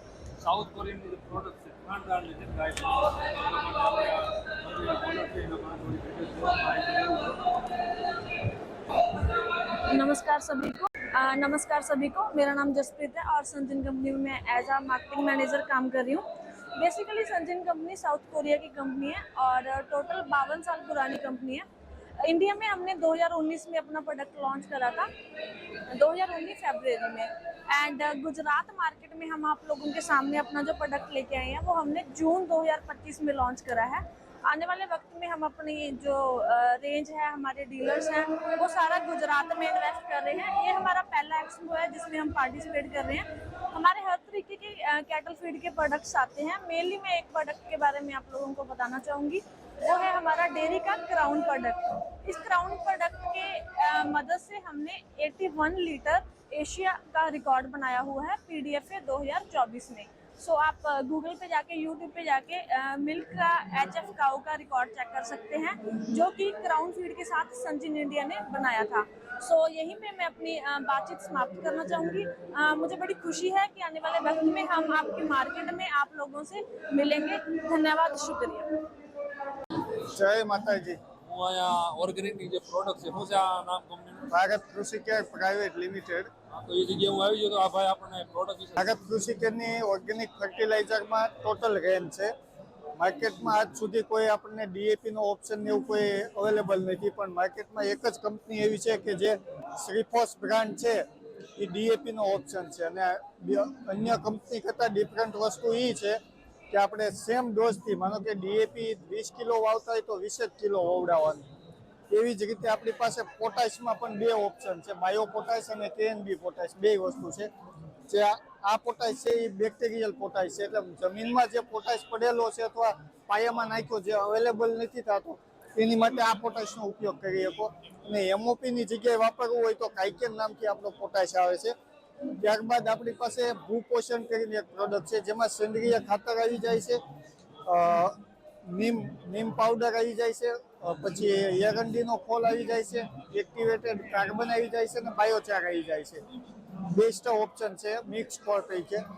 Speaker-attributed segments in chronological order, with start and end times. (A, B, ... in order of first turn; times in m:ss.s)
0:00.4-0:07.4 A
0:09.9-0:16.2 B
0:16.8-0:21.6 B
0:22.3-0:25.1 B
0:25.9-1:18.7 B
1:20.1-1:21.0 C
1:21.2-1:24.3 A
1:24.3-1:26.3 C
1:26.5-1:28.8 A
1:28.8-1:32.3 C
1:33.0-1:41.0 C
1:41.6-1:46.2 C
1:46.7-1:51.4 C
1:52.1-1:57.5 C
1:58.1-2:11.7 C
2:12.4-2:17.0 C
2:17.7-2:26.2 C
2:26.9-2:29.0 C